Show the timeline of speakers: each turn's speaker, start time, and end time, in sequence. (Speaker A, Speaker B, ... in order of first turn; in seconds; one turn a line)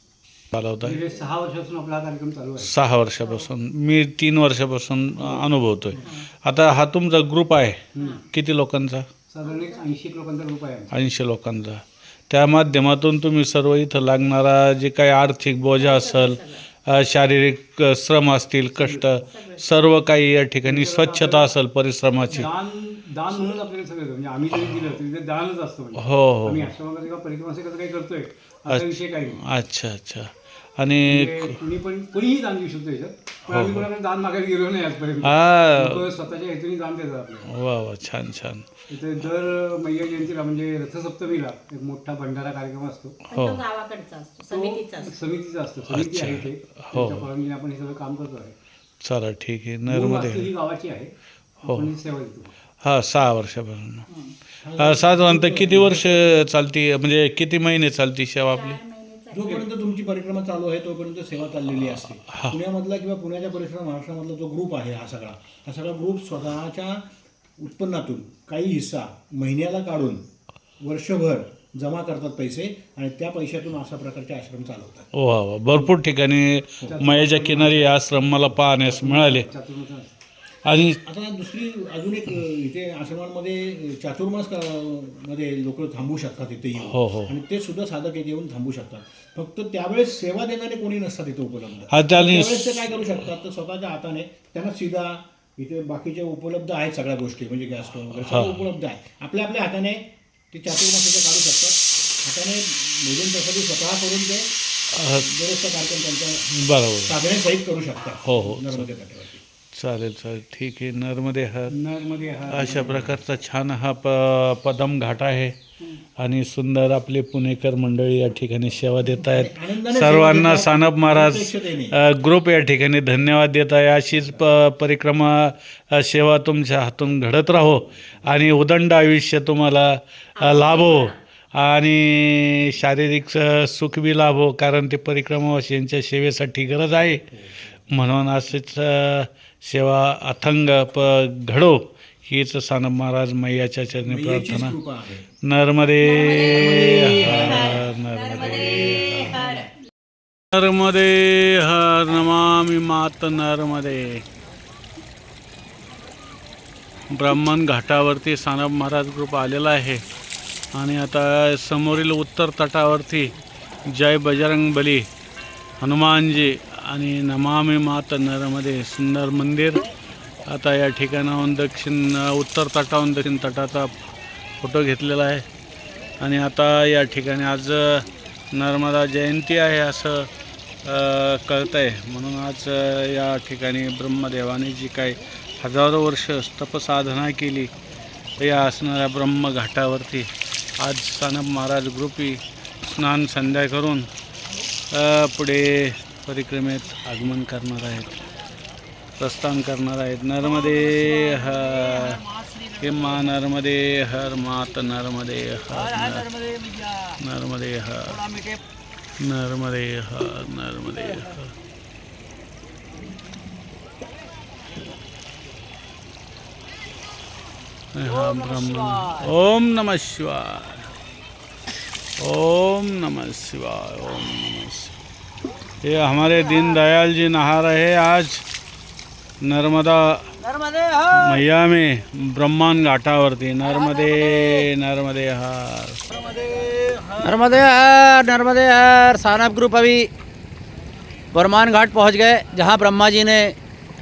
Speaker A: 0.5-1.0
Speaker B: 0.8-2.7
Speaker A: 2.6-9.1
Speaker C: 3.2-3.5
Speaker B: 5.2-6.2
Speaker C: 5.9-6.3
Speaker B: 7.9-8.2
Speaker B: 9.3-10.9
Speaker C: 9.4-9.8
Speaker A: 10.9-22.5
Speaker C: 15.8-16.6
Speaker B: 18.8-19.1
Speaker C: 19.1-20.0
Speaker B: 20.6-21.5
Speaker B: 22.2-29.4
Speaker A: 24.5-24.9
Speaker A: 25.9-26.7
Speaker A: 28.7-31.6
Speaker B: 31.0-37.5
Speaker A: 33.5-33.9
Speaker A: 35.2-36.1
Speaker A: 37.5-38.7
Speaker B: 38.9-43.2
Speaker C: 43.3-45.1
Speaker A: 43.3-43.6
Speaker B: 44.5-48.5
Speaker A: 45.9-47.3
Speaker A: 49.0-50.5
Speaker B: 49.9-51.1
Speaker B: 51.6-52.5
Speaker A: 51.6-51.9
Speaker A: 52.8-54.1
Speaker C: 54.1-54.3
Speaker D: 54.6-56.4
Speaker A: 54.8-58.8
Speaker C: 58.5-59.6
Speaker D: 59.3-70.2
Speaker A: 62.2-62.6
Speaker D: 70.8-75.1
Speaker A: 75.1-79.5
Speaker B: 76.9-78.0
Speaker B: 78.7-80.1
Speaker A: 80.6-81.0
Speaker D: 81.0-109.4
Speaker A: 86.8-87.3
Speaker A: 91.9-92.8
Speaker A: 98.2-98.7
Speaker A: 104.9-105.3
Speaker A: 106.5-107.2
Speaker A: 108.2-108.9
Speaker A: 109.7-111.8
Speaker B: 111.7-113.2
Speaker A: 112.5-115.6
Speaker A: 116.2-137.3
Speaker D: 119.2-122.0
Speaker C: 130.4-131.2
Speaker A: 137.9-144.8
Speaker D: 144.0-145.3
Speaker A: 145.4-149.7
Speaker C: 146.0-149.7
Speaker D: 146.3-147.8
Speaker A: 150.5-154.2
Speaker A: 157.1-160.0
Speaker A: 160.7-165.1
Speaker A: 165.8-169.9
Speaker A: 170.4-173.9
Speaker A: 174.6-175.5
Speaker A: 176.2-180.3
Speaker A: 180.8-187.7
Speaker A: 188.4-194.1
Speaker A: 194.9-198.3
Speaker A: 199.2-206.4
Speaker A: 207.0-208.3
Speaker A: 209.2-211.5
Speaker A: 217.9-220.9
Speaker E: 218.1-219.1
Speaker A: 222.2-224.9
Speaker A: 225.8-228.4
Speaker A: 229.4-230.4
Speaker E: 230.4-231.4
Speaker A: 231.1-237.4
Speaker E: 237.2-240.1
Speaker E: 241.3-243.6